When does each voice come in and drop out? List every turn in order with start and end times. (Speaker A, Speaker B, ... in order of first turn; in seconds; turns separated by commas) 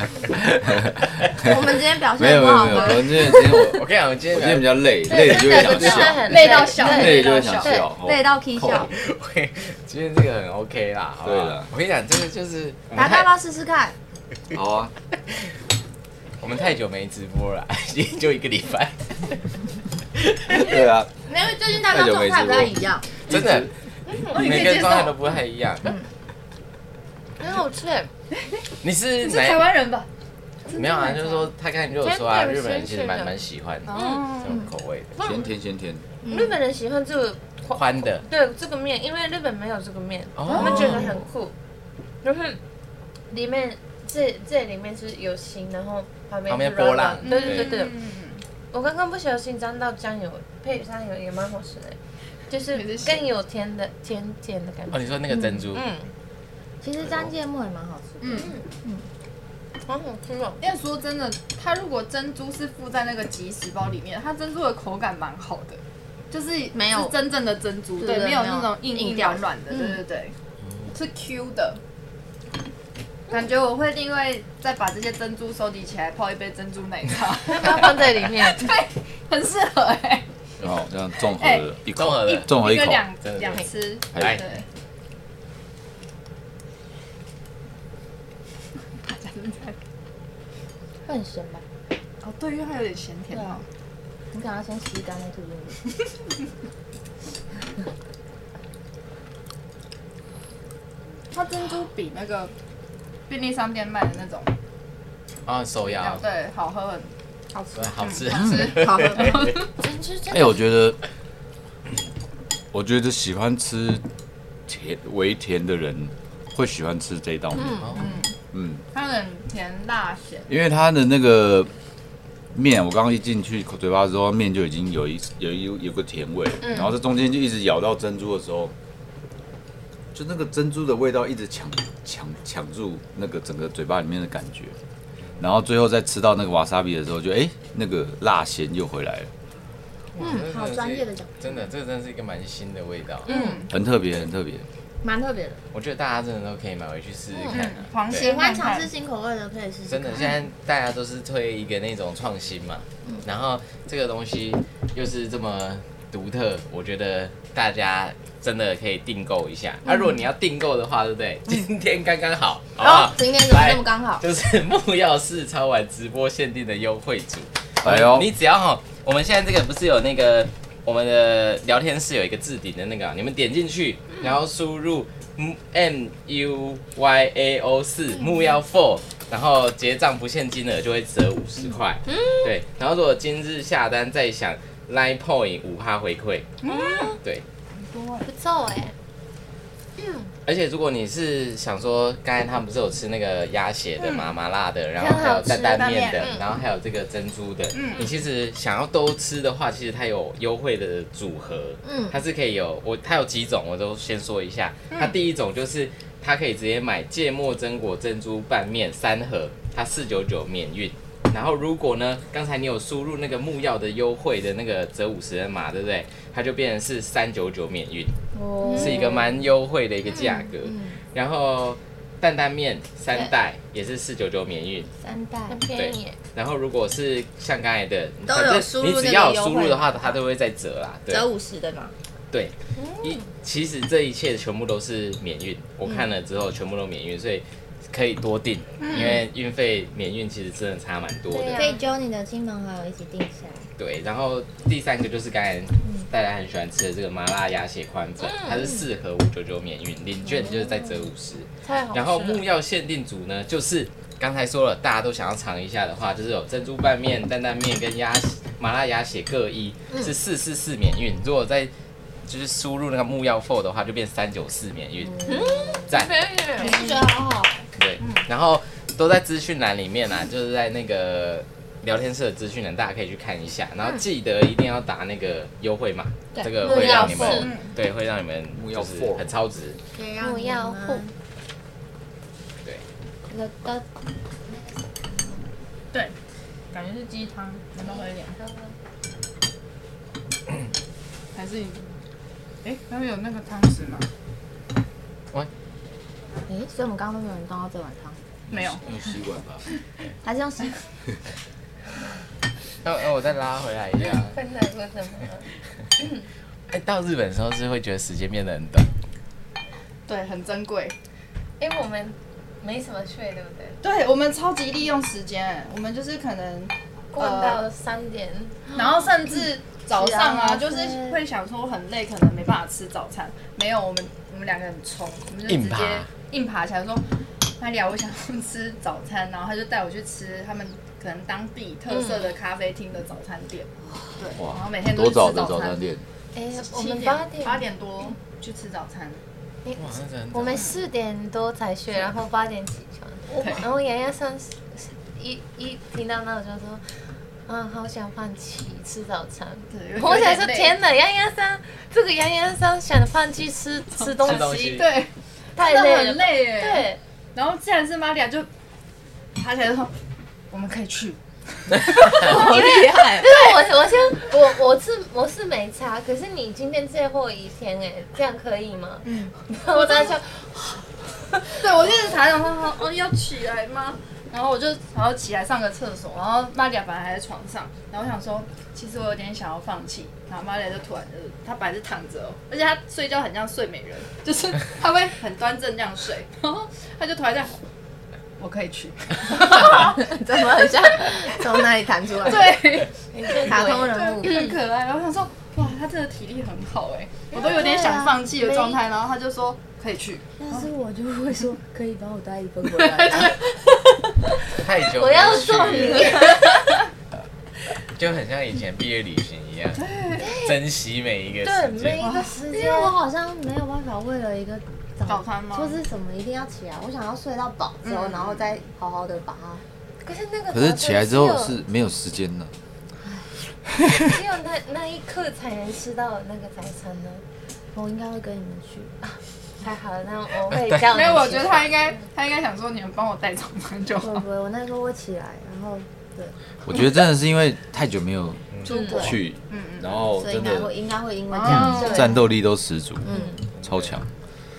Speaker A: 0.3-8.9, Speaker B: 1.4-3.6, Speaker C: 3.5-6.3, Speaker D: 5.0-7.9, Speaker E: 6.0-7.8, Speaker B: 8.0-8.9, Speaker C: 8.9-13.3, Speaker A: 11.2-11.7, Speaker B: 12.9-13.9, Speaker A: 14.5-14.9, Speaker C: 16.4-19.4, Speaker C: 20.1-20.8, Speaker A: 20.6-21.1, Speaker B: 21.3-23.1, Speaker A: 21.8-22.8, Speaker C: 23.3-23.7, Speaker A: 23.3-23.7, Speaker D: 24.1-24.8, Speaker E: 24.3-25.2, Speaker C: 24.3-25.9, Speaker B: 25.8-26.1, Speaker D: 27.4-28.1, Speaker E: 28.3-28.6, Speaker C: 28.8-29.7, Speaker E: 29.2-30.1, Speaker E: 30.7-31.4, Speaker C: 30.7-35.2, Speaker D: 32.0-33.3, Speaker E: 33.9-34.6, Speaker D: 33.9-34.3, Speaker A: 35.2-36.0, Speaker D: 35.2-35.5, Speaker B: 36.2-36.6, Speaker D: 36.3-41.5, Speaker C: 37.7-38.2, Speaker C: 40.4-41.1, Speaker E: 40.5-41.1, Speaker D: 42.2-42.6, Speaker D: 43.3-48.0, Speaker C: 46.5-47.7, Speaker E: 47.2-48.4, Speaker D: 48.7-52.0, Speaker D: 52.5-56.1, Speaker E: 52.7-53.3, Speaker C: 54.9-55.9, Speaker B: 56.8-59.0, Speaker C: 57.0-57.3, Speaker E: 58.2-58.5, Speaker D: 58.4-58.6, Speaker D: 59.9-60.7, Speaker E: 60.6-70.3, Speaker B: 66.7-67.1, Speaker B: 68.0-69.4, Speaker E: 70.9-71.8, Speaker E: 73.3-80.3, Speaker D: 77.4-78.7, Speaker A: 80.6-83.0, Speaker E: 81.3-84.7, Speaker C: 82.0-82.5, Speaker C: 83.2-84.4, Speaker A: 84.1-84.4, Speaker E: 89.0-89.8, Speaker B: 91.0-91.6, Speaker E: 92.2-93.7, Speaker B: 93.3-93.6, Speaker B: 94.3-95.8, Speaker E: 101.3-102.5, Speaker E: 103.3-104.5, Speaker C: 105.5-106.2, Speaker E: 106.0-107.1, Speaker C: 107.8-109.6, Speaker E: 108.0-109.6, Speaker B: 108.6-109.6, Speaker D: 109.8-110.5, Speaker A: 110.3-111.0, Speaker A: 112.7-114.0, Speaker A: 114.7-117.9, Speaker B: 117.5-118.0, Speaker C: 117.8-118.1, Speaker E: 118.0-118.3, Speaker A: 118.5-118.8, Speaker E: 118.9-120.5, Speaker A: 120.5-121.7, Speaker A: 122.5-128.7, Speaker A: 130.1-134.8, Speaker A: 135.4-139.3, Speaker C: 140.2-143.3, Speaker B: 140.2-141.7, Speaker D: 143.3-143.6, Speaker E: 143.3-143.7, Speaker A: 143.7-144.7, Speaker B: 145.0-145.6, Speaker C: 145.7-148.2, Speaker E: 147.5-148.9, Speaker B: 148.1-150.4, Speaker C: 149.9-186.6, Speaker B: 159.8-160.2, Speaker B: 162.8-164.2, Speaker A: 167.8-168.3, Speaker D: 182.1-182.5, Speaker E: 186.6-187.2, Speaker D: 186.6-187.2, Speaker E: 187.7-188.3, Speaker D: 188.2-188.9, Speaker D: 190.0-190.3, Speaker C: 190.5-218.2, Speaker E: 194.0-194.3, Speaker D: 195.0-196.5, Speaker E: 195.6-196.3, Speaker E: 197.7-198.1, Speaker B: 201.8-202.2, Speaker E: 204.9-205.2, Speaker B: 218.3-219.5, Speaker C: 218.8-224.9, Speaker B: 220.1-221.0, Speaker B: 225.0-225.6, Speaker D: 225.5-226.2, Speaker C: 225.7-231.3, Speaker B: 228.3-230.2, Speaker B: 231.1-231.9, Speaker C: 232.3-241.8, Speaker D: 232.8-233.3, Speaker E: 238.8-239.2, Speaker D: 241.3-241.9, Speaker B: 241.5-243.7, Speaker C: 243.8-261.7, Speaker D: 248.2-248.7, Speaker B: 250.2-251.1, Speaker D: 251.6-252.5, Speaker C: 262.3-265.2, Speaker B: 265.1-265.9, Speaker D: 265.2-267.0, Speaker B: 266.5-267.6, Speaker C: 267.8-279.8, Speaker E: 268.0-268.2, Speaker B: 276.4-277.5, Speaker D: 276.6-277.5, Speaker E: 277.3-277.7, Speaker A: 278.5-279.3, Speaker B: 279.9-281.1, Speaker D: 280.2-281.1, Speaker B: 283.3-283.9, Speaker E: 286.7-288.4, Speaker D: 287.8-288.8, Speaker E: 291.4-291.8, Speaker E: 292.6-294.1, Speaker B: 296.5-298.2, Speaker E: 298.5-298.8, Speaker A: 298.5-299.6, Speaker B: 300.2-300.8, Speaker C: 302.8-304.4, Speaker D: 304.0-305.5, Speaker D: 306.0-306.3, Speaker C: 306.7-308.9, Speaker E: 310.1-311.0, Speaker D: 311.6-313.8, Speaker E: 313.8-317.6, Speaker D: 317.1-318.9, Speaker E: 318.7-335.8, Speaker D: 320.2-320.8, Speaker B: 320.9-321.1, Speaker C: 325.5-326.1, Speaker D: 331.9-332.2, Speaker A: 334.4-336.0, Speaker D: 336.4-337.7, Speaker E: 336.5-339.2, Speaker D: 339.6-346.8, Speaker C: 339.8-340.6, Speaker E: 343.3-343.7, Speaker D: 347.5-354.9, Speaker E: 349.7-350.8, Speaker C: 354.2-354.9, Speaker E: 354.7-358.5, Speaker D: 355.6-357.0, Speaker E: 359.4-359.9, Speaker E: 360.5-362.5, Speaker C: 361.8-362.3, Speaker B: 362.1-363.3, Speaker D: 362.3-371.8, Speaker E: 369.0-370.1, Speaker E: 371.6-387.6, Speaker E: 388.4-390.1, Speaker B: 389.4-392.6, Speaker E: 392.2-400.7, Speaker D: 393.1-394.5, Speaker B: 393.4-394.3, Speaker D: 397.3-398.8, Speaker B: 397.4-398.2, Speaker B: 400.4-403.4, Speaker E: 402.8-403.4, Speaker C: 404.6-406.2, Speaker D: 404.9-406.8, Speaker B: 405.4-406.2, Speaker E: 405.9-406.8, Speaker C: 408.0-409.8, Speaker E: 409.8-410.3, Speaker D: 410.2-410.6, Speaker C: 410.4-412.0, Speaker D: 411.4-412.9, Speaker E: 412.0-412.4, Speaker B: 412.5-419.6, Speaker E: 415.1-415.8, Speaker E: 417.8-418.5, Speaker D: 420.0-421.6, Speaker A: 420.5-422.5, Speaker D: 424.0-427.2, Speaker B: 427.7-428.9, Speaker D: 429.1-432.1, Speaker C: 430.5-431.5, Speaker E: 430.9-434.2, Speaker B: 434.0-436.3, Speaker A: 436.6-440.7, Speaker E: 438.6-440.0, Speaker D: 438.7-439.1, Speaker B: 440.2-442.2, Speaker E: 441.3-442.1, Speaker A: 441.4-444.1, Speaker D: 441.7-442.2, Speaker B: 443.0-443.5, Speaker D: 443.1-443.3, Speaker C: 443.6-444.0